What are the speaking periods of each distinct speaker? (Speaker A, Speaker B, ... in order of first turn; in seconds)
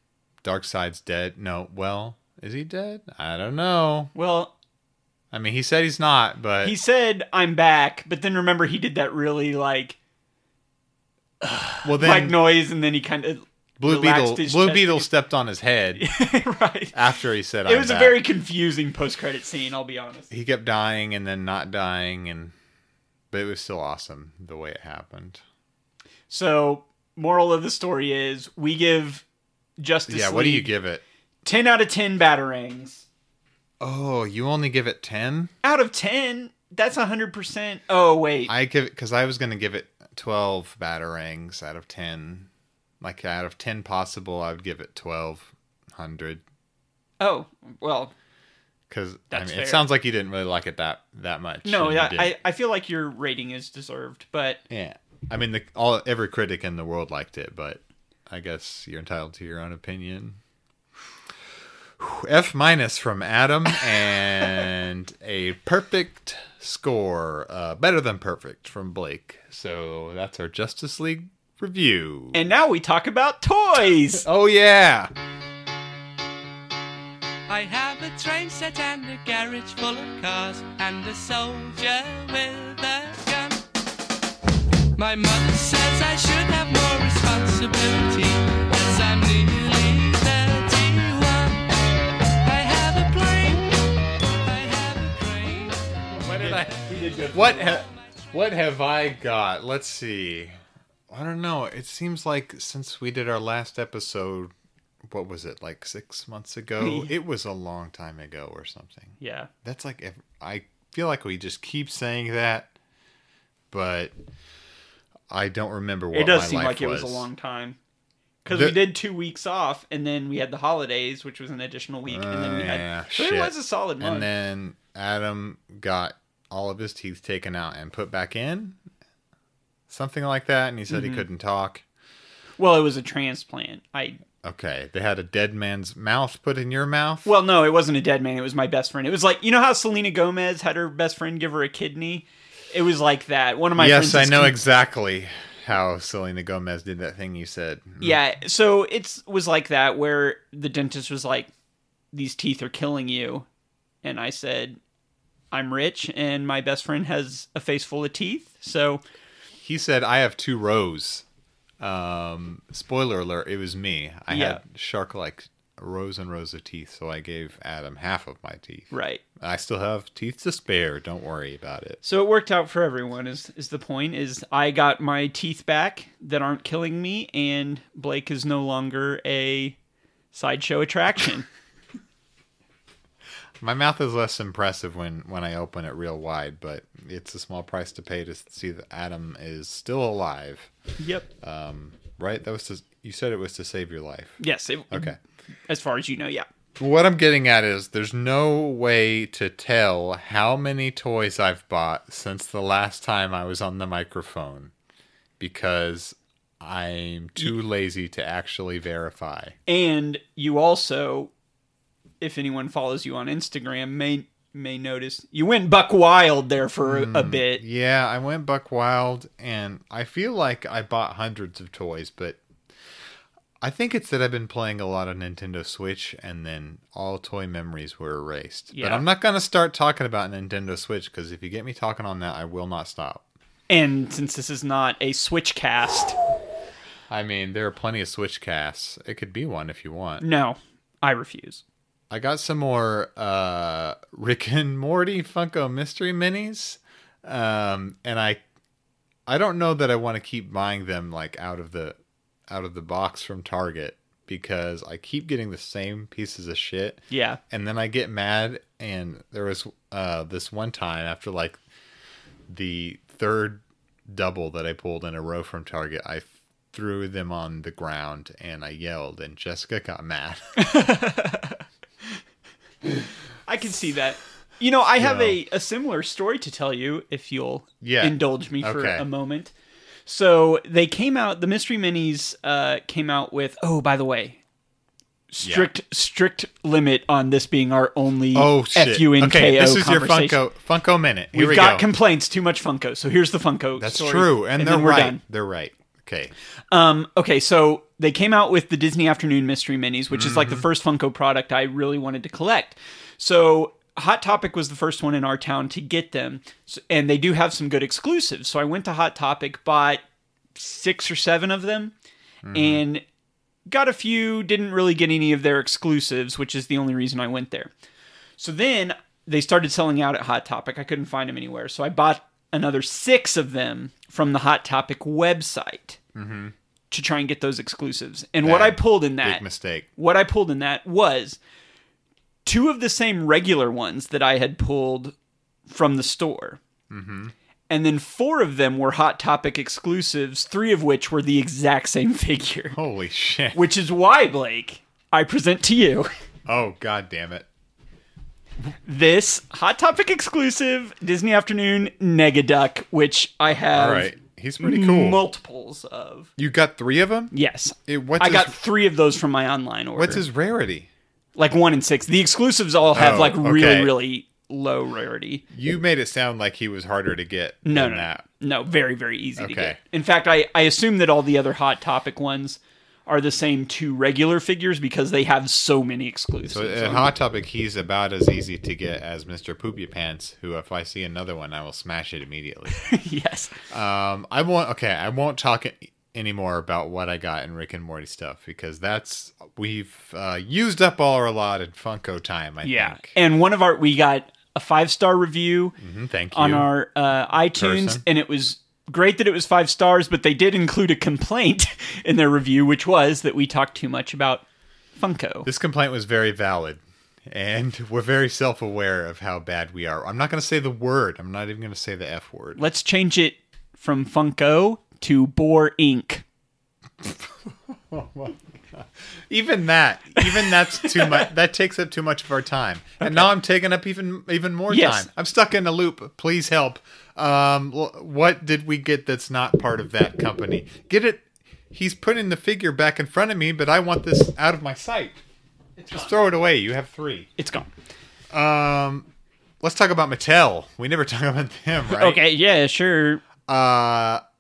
Speaker A: 0.4-4.1, 5.3-6.8, 11.8-12.4, 13.8-16.1, 16.9-18.2, 20.3-22.5, 23.3-25.4, 30.1-31.0, 33.8-35.5, 38.5-42.5, 43.0-46.4, 48.9-52.3, 54.7-60.4, 62.0-72.4, 74.2-75.1, 97.3-100.5, 101.1-104.5, 105.1-112.7, 113.7-114.1, 115.3-117.3, 118.5-118.8, 122.1-128.8, 129.9-131.8, 134.4-137.3, 143.8-148.2, 159.6-161.2, 161.8-172.0, 183.6-190.7, 191.4-195.2, 196.8-204.7, 205.4-209.6, 216.8-222.4, 223.6-233.2, 237.1-240.2, 242.1-248.4, 249.3-252.0, 252.5-261.6, 262.5-270.6, 275.0-275.4, 277.8-279.1, 285.4-285.7, 288.3-291.9, 293.8-296.3, 300.1-300.6, 312.4-312.8, 326.1-326.5, 328.4-329.9, 336.9-337.3, 342.7-343.6, 346.5-347.5, 353.7-355.2, 356.4-357.3, 357.9-358.6, 360.0-360.9, 362.9-363.9, 365.5-368.2, 369.4-369.8, 376.5-382.9, 383.7-393.2, 395.8-396.7, 397.6-398.0, 405.4-412.6, 417.0-435.2, 435.9-437.3, 438.3-439.1, 439.6-442.2, 443.4-444.2
Speaker B: 4.2-4.5, 6.6-10.0, 11.4-15.1, 16.0-17.0, 17.7-20.3, 26.3-29.2, 29.8-30.7, 31.4-33.1, 35.6-38.5, 47.2-48.1, 49.3-49.9, 51.6-54.6, 64.1-64.6, 72.3-74.2, 96.3-97.8, 106.8-107.1, 109.2-109.5, 116.1-117.8, 118.5-124.3, 130.9-131.2, 132.6-134.2, 137.3-144.6, 148.0-151.5, 152.1-153.5, 154.0-154.8, 155.5-159.0, 164.3-164.6, 168.9-169.2, 172.0-179.8, 180.3-181.5, 191.0-191.3, 194.4-195.1, 195.7-196.5, 209.7-211.3, 212.2-217.6, 228.7-229.1, 233.7-236.2, 240.2-241.6, 257.1-257.4, 270.6-271.6, 273.5-279.5, 280.1-284.4, 285.3-290.4, 291.3-295.2, 296.7-310.0, 310.6-311.9, 312.5-313.0, 313.7-317.7, 318.4-326.0, 326.9-329.4, 330.0-331.4, 332.4-335.1, 335.7-336.6, 337.7-342.8, 343.5-346.1, 348.9-356.3, 357.3-360.2, 361.4-365.4, 367.6-377.1, 382.7-383.6, 392.6-395.8, 396.3-404.4, 405.0-405.5, 412.6-416.2, 420.2-421.3, 423.0-423.3, 424.7-425.1, 435.8-436.1, 437.4-437.7, 441.9-443.2
Speaker C: 77.5-83.6, 85.0-91.7, 92.4-93.8, 94.4-96.7